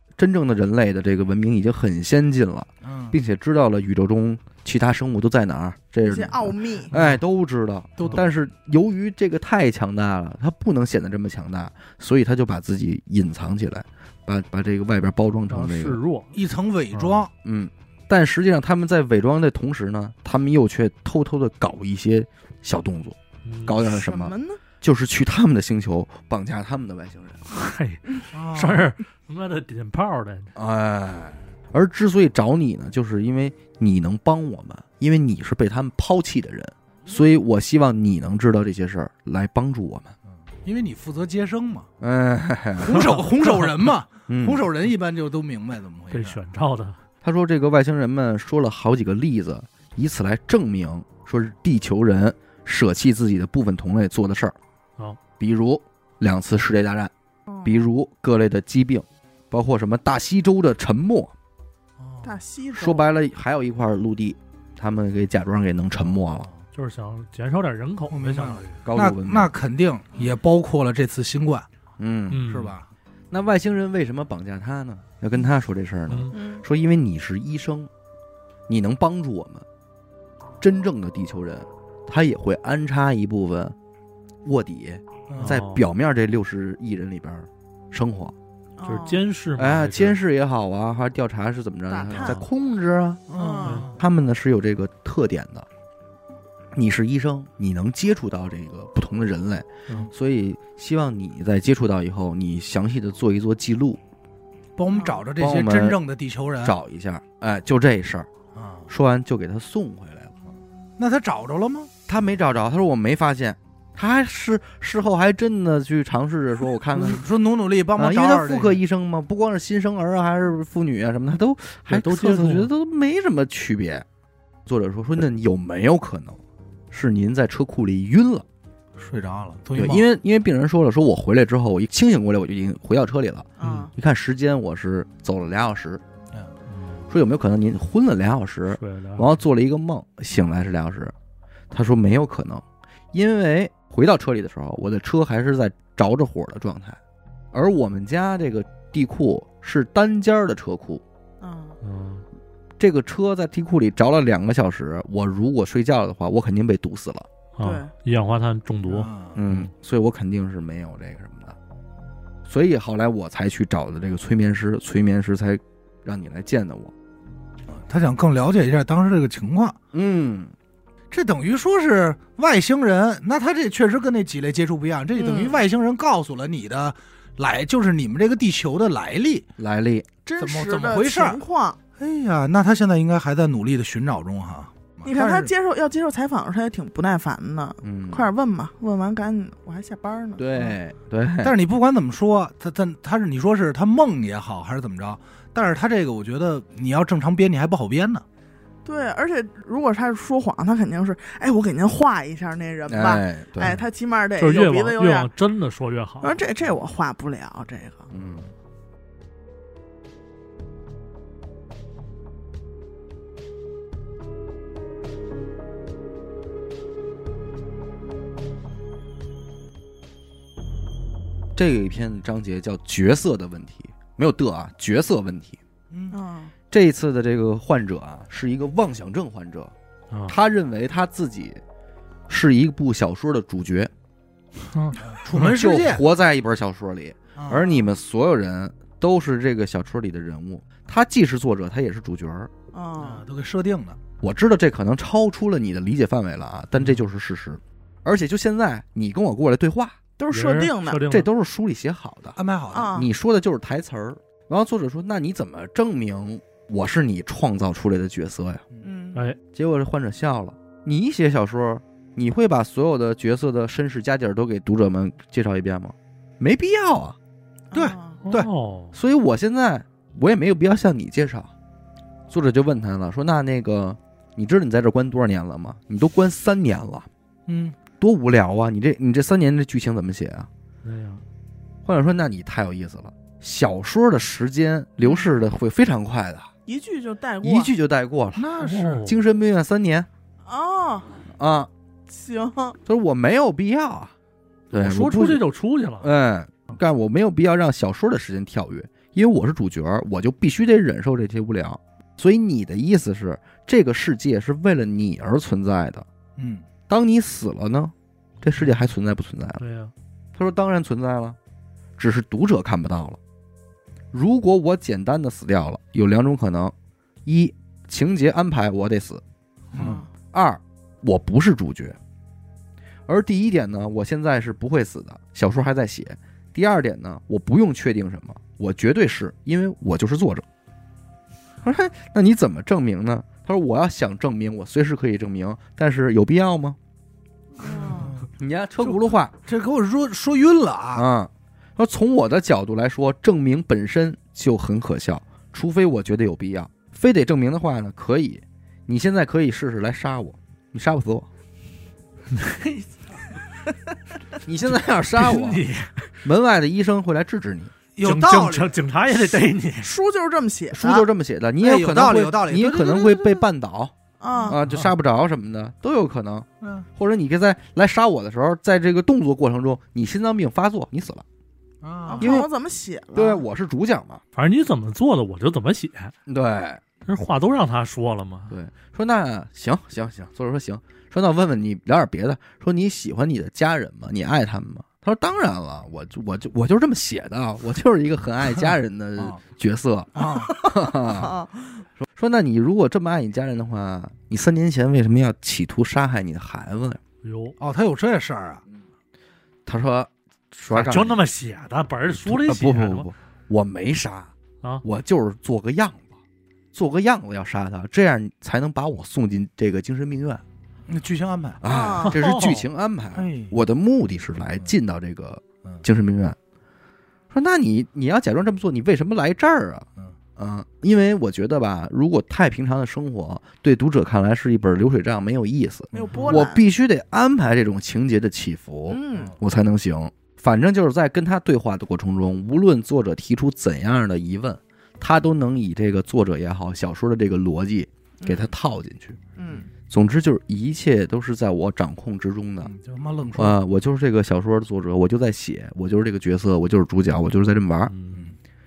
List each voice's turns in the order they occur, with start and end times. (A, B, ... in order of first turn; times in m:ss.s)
0:00.2-0:16.0 A
0:02.8-0:03.2 B
0:06.0-0:06.9 C
0:08.0-0:08.3 B
0:15.5-0:16.4 D
0:16.3-0:17.3 B
0:16.9-0:17.2 D
0:17.4-0:27.4 A
0:23.4-0:23.9 D
0:23.8-0:24.6 C
0:27.5-0:30.5 D
0:28.3-0:28.9 B
0:30.6-0:40.1 A
0:40.3-0:41.9 B
0:42.0-0:43.1 A
0:42.8-0:46.4 B
0:44.3-0:44.7 A
0:46.1-0:47.0 D
0:47.2-0:54.6 A
0:55.4-0:57.1 A
0:57.5-0:57.9 C
0:57.6-1:01.3 A
1:02.0-1:02.4 B
1:02.2-1:03.1 C
1:02.8-1:06.5 A
1:06.1-1:06.7 B
1:06.7-1:08.8 D
1:08.1-1:11.7 B
1:08.8-1:09.5 A
1:12.0-1:12.4 A
1:12.3-1:12.8 D
1:12.4-1:12.9 B
1:13.3-1:17.9 A
1:16.1-1:16.4 D
1:16.3-1:16.6 C
1:18.7-1:19.7 A
1:20.6-1:23.8 A
1:24.4-1:28.4 A
1:25.3-1:25.6 B
1:25.4-1:25.8 D
1:28.8-1:29.2 C
1:28.8-1:30.2 D
1:29.6-1:33.3 A
1:31.9-1:32.4 C
1:32.2-1:32.5 D
1:33.3-1:34.0 B
1:33.3-1:33.9 C
1:33.9-1:35.7 A
1:36.7-1:44.0 A
1:44.8-1:46.8 B
1:44.9-1:45.2 C
1:45.4-1:46.0 A
1:46.6-1:48.3 A
1:48.5-1:48.9 B
1:48.9-1:50.4 A
1:51.0-1:51.9 B
1:52.1-1:57.2 A
1:56.9-1:58.8 B
1:58.0-2:04.1 A
2:01.9-2:02.7 D
2:04.7-2:06.4 A
2:06.9-2:08.4 A
2:09.0-2:10.1 B
2:09.8-2:16.0 A
2:13.6-2:13.9 C
2:13.6-2:13.9 B
2:16.7-2:17.1 D
2:17.1-2:21.1 A
2:18.8-2:19.3 D
2:21.7-2:27.0 A
2:27.5-2:31.0 A
2:31.4-2:31.8 C
2:31.8-2:32.2 D
2:32.8-2:37.3 A
2:37.6-2:39.7 D
2:37.6-2:37.9 C
2:38.9-2:39.4 B
2:39.4-2:41.6 A
2:42.5-2:46.9 A
2:47.7-2:49.8 B
2:49.9-2:50.5 A
2:51.1-2:59.5 B
2:55.2-2:55.6 C
2:59.6-3:00.1 A
3:00.2-3:01.8 C
3:00.4-3:01.4 B
3:02.0-3:05.5 B
3:05.0-3:10.7 C
3:07.8-3:08.3 A
3:10.4-3:11.6 A
3:11.4-3:18.2 B
3:18.8-3:25.3 C
3:22.9-3:23.8 A
3:24.4-3:26.4 D
3:26.2-3:28.1 C
3:28.1-3:28.5 A
3:41.6-3:45.6 A
3:45.9-3:46.2 B
3:46.1-3:46.5 C
3:46.7-3:49.7 A
3:50.1-3:50.4 D
3:50.3-3:51.6 A
3:52.3-3:53.9 A
3:54.7-3:55.4 D
3:55.0-3:56.0 B
3:55.3-4:02.5 A
3:57.4-3:57.6 B
3:57.5-3:57.8 C
4:02.7-4:03.2 C
4:03.0-4:04.0 B
4:04.2-4:10.0 A
4:10.2-4:11.0 C
4:10.3-4:11.3 D
4:11.1-4:12.4 A
4:12.4-4:13.0 B
4:12.7-4:13.1 C
4:12.9-4:18.6 A
4:18.8-4:19.2 C
4:19.5-4:27.2 A
4:27.7-4:28.2 C
4:27.7-4:28.5 B
4:28.2-4:29.0 D
4:28.9-4:31.5 A
4:32.3-4:37.1 A
4:37.5-4:37.8 B
4:38.0-4:40.5 A
4:40.8-4:41.2 D
4:41.8-4:46.5 A
4:45.0-4:45.3 C
4:46.7-4:47.7 C
4:47.4-4:48.5 A
4:48.4-4:49.1 B
4:48.6-4:49.2 D
4:49.0-4:50.1 A
4:50.5-4:51.2 C
4:51.3-4:51.7 A
4:52.1-4:52.8 C
4:52.9-4:54.1 A
4:54.7-4:55.4 A
4:54.7-4:56.1 D
4:56.0-5:06.1 A
5:06.4-5:06.7 B
5:06.9-5:09.6 A
5:09.6-5:09.9 D
5:10.4-5:11.4 A
5:12.0-5:13.2 A
5:14.1-5:16.7 A
5:17.2-5:19.2 A
5:19.8-5:20.1 C
5:19.8-5:22.0 A
5:23.1-5:30.5 A
5:31.6-5:36.8 A
5:37.6-5:38.2 C
5:37.6-5:38.3 B
5:38.3-5:39.3 A
5:39.4-5:41.0 B
5:41.0-5:51.3 A
5:52.3-5:52.8 D
5:54.4-5:55.7 A
5:55.1-5:55.9 D
5:56.2-5:57.7 A
5:58.0-5:58.7 B
5:58.0-5:59.9 D
5:59.8-6:01.1 C
6:00.7-6:03.9 A
6:01.6-6:03.4 B
6:04.2-6:04.6 C
6:04.4-6:11.2 A
6:06.6-6:06.9 B
6:11.8-6:12.3 B
6:12.1-6:13.4 C
6:12.2-6:12.5 A
6:13.1-6:14.2 A
6:14.3-6:16.1 D
6:16.3-6:16.8 A
6:17.0-6:18.6 D
6:18.5-6:31.4 A
6:30.2-6:30.5 B
6:30.2-6:31.8 C
6:32.0-6:37.0 A
6:37.2-6:37.6 D
6:37.6-6:38.6 B
6:39.7-6:41.2 A
6:40.7-6:43.1 D
6:42.2-6:44.3 A
6:44.8-6:46.1 A
6:46.7-6:50.4 A
6:50.9-6:51.6 B
6:51.6-6:56.4 A
6:51.7-6:52.2 C
6:52.0-6:52.7 D
6:53.2-6:53.6 B
6:57.3-7:19.2 A
7:05.9-7:06.4 B
7:06.0-7:06.6 C
7:08.9-7:09.4 C
7:18.2-7:18.5 C
7:19.4-7:19.7 C
7:19.9-7:22.7 A
7:22.6-7:23.6 B
7:23.4-7:27.9 A
7:27.9-7:28.2 D